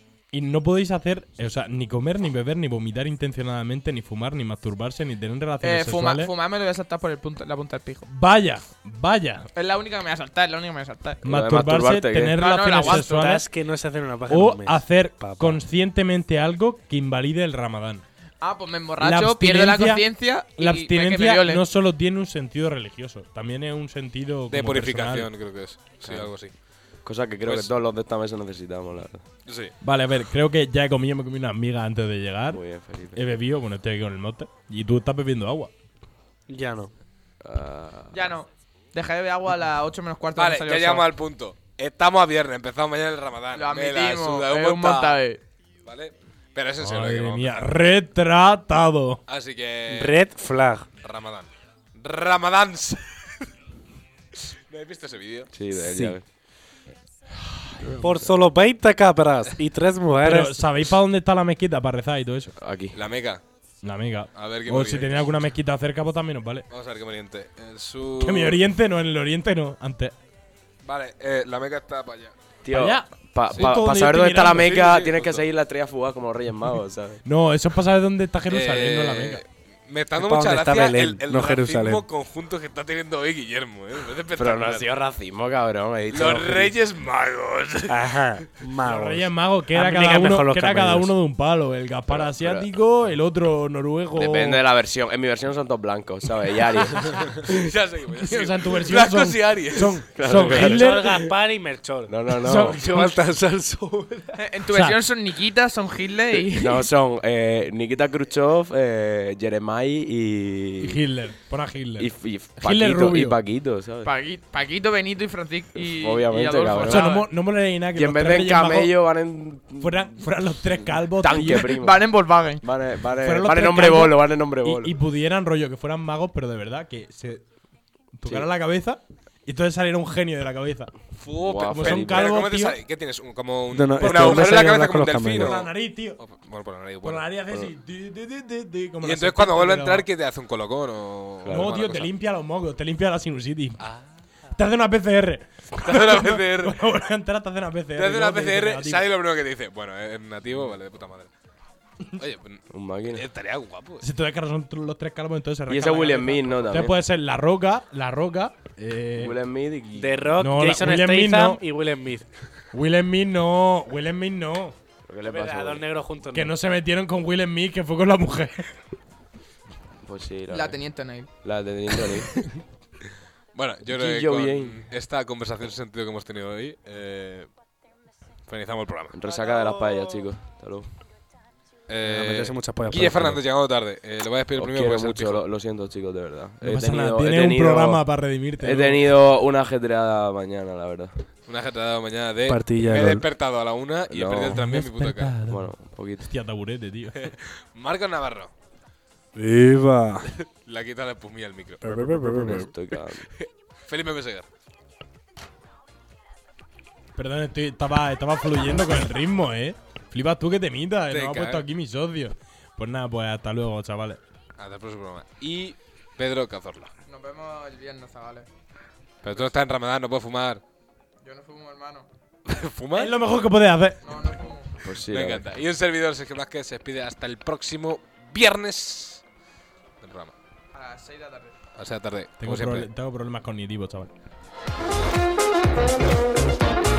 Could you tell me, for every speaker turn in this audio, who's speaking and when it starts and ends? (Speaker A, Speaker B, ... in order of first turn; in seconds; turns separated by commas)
Speaker A: 0.3-6.3, Speaker B: 5.6-8.1, Speaker A: 8.1-9.5, Speaker B: 9.5-11.2, Speaker A: 11.2-13.5, Speaker C: 11.3-12.4, Speaker B: 12.3-13.4, Speaker D: 13.1-15.6, Speaker A: 14.3-18.1, Speaker B: 18.4-21.6, Speaker A: 19.0-25.3, Speaker E: 24.5-26.5, Speaker C: 26.0-26.3, Speaker C: 27.0-29.2, Speaker E: 27.4-27.7, Speaker E: 29.5-29.8, Speaker A: 29.8-32.6, Speaker C: 32.5-33.2, Speaker A: 33.1-35.7, Speaker D: 36.5-36.9, Speaker C: 37.4-38.3, Speaker B: 38.1-41.1, Speaker E: 40.4-45.2, Speaker B: 43.5-45.4, Speaker E: 45.9-47.8, Speaker A: 46.8-49.2, Speaker E: 49.3-50.2, Speaker D: 49.9-50.9, Speaker E: 51.0-53.5, Speaker E: 54.4-55.5, Speaker C: 55.5-56.2, Speaker D: 55.8-56.2, Speaker D: 58.0-60.6, Speaker A: 60.2-62.5, Speaker C: 62.6-63.0, Speaker E: 62.9-63.4, Speaker A: 63.8-66.7, Speaker E: 64.3-65.3, Speaker E: 66.7-68.6, Speaker A: 68.2-70.1, Speaker E: 70.8-72.3, Speaker C: 72.6-77.2, Speaker A: 72.7-74.8, Speaker E: 74.5-75.5, Speaker A: 77.2-79.4, Speaker E: 78.5-84.9, Speaker D: 80.2-82.0, Speaker C: 84.3-86.8, Speaker E: 86.1-88.5, Speaker D: 87.9-91.1, Speaker A: 88.8-94.6, Speaker C: 92.1-92.7, Speaker C: 94.2-97.5, Speaker E: 97.4-100.5, Speaker A: 98.1-101.2, Speaker C: 100.2-101.2, Speaker D: 100.5-104.4, Speaker C: 102.1-102.8, Speaker A: 102.4-103.1, Speaker B: 104.3-106.9, Speaker A: 104.7-105.0, Speaker C: 106.6-111.0, Speaker A: 110.8-113.4, Speaker C: 112.0-114.1, Speaker B: 114.0-117.3, Speaker C: 115.8-117.2, Speaker A: 116.9-118.9, Speaker C: 118.0-125.0, Speaker A: 119.8-121.7, Speaker B: 121.3-122.7, Speaker A: 123.1-127.4, Speaker A: 128.2-130.9, Speaker E: 131.2-137.3, Speaker C: 131.4-132.3, Speaker A: 131.7-132.8, Speaker D: 133.7-135.6, Speaker A: 134.0-134.7, Speaker A: 135.3-136.2, Speaker A: 137.0-140.1, Speaker E: 139.0-142.1, Speaker C: 141.4-141.8, Speaker A: 141.5-143.8, Speaker E: 143.8-144.1, Speaker A: 144.6-149.1, Speaker E: 145.8-146.8, Speaker E: 147.9-151.3, Speaker E: 152.2-154.1, Speaker C: 152.7-153.2, Speaker A: 154.0-159.3, Speaker C: 155.7-157.0, Speaker C: 159.2-160.3, Speaker D: 160.0-162.3, Speaker A: 160.4-161.6, Speaker A: 162.7-164.8, Speaker C: 165.1-165.9, Speaker D: 165.2-166.5, Speaker A: 166.3-168.7, Speaker C: 170.0-170.8, Speaker B: 170.5-171.3, Speaker C: 171.4-172.5, Speaker E: 173.5-177.5, Speaker C: 173.9-174.8, Speaker E: 178.5-179.2, Speaker C: 179.1-180.9, Speaker D: 179.6-180.2, Speaker E: 181.9-185.4, Speaker D: 182.0-183.4, Speaker C: 184.6-188.1, Speaker A: 186.6-189.1, Speaker C: 188.6-191.2, Speaker E: 191.5-195.4, Speaker D: 192.5-193.3, Speaker C: 194.1-194.6, Speaker A: 194.5-195.7, Speaker C: 195.5-196.3, Speaker A: 196.2-197.3, Speaker E: 197.2-198.5, Speaker D: 199.3-200.3, Speaker E: 200.4-201.9, Speaker D: 201.8-202.7, Speaker C: 202.0-203.3, Speaker E: 203.4-204.5, Speaker A: 207.2-214.2, Speaker E: 211.1-211.7, Speaker E: 214.6-216.9, Speaker B: 217.1-218.5, Speaker E: 219.2-220.6, Speaker B: 221.2-222.1, Speaker E: 222.5-223.2, Speaker A: 222.9-224.0, Speaker B: 224.0-224.8, Speaker C: 224.8-225.5, Speaker E: 225.0-229.2, Speaker E: 230.0-230.3, Speaker B: 230.7-231.6, Speaker E: 231.8-232.9, Speaker A: 232.4-234.1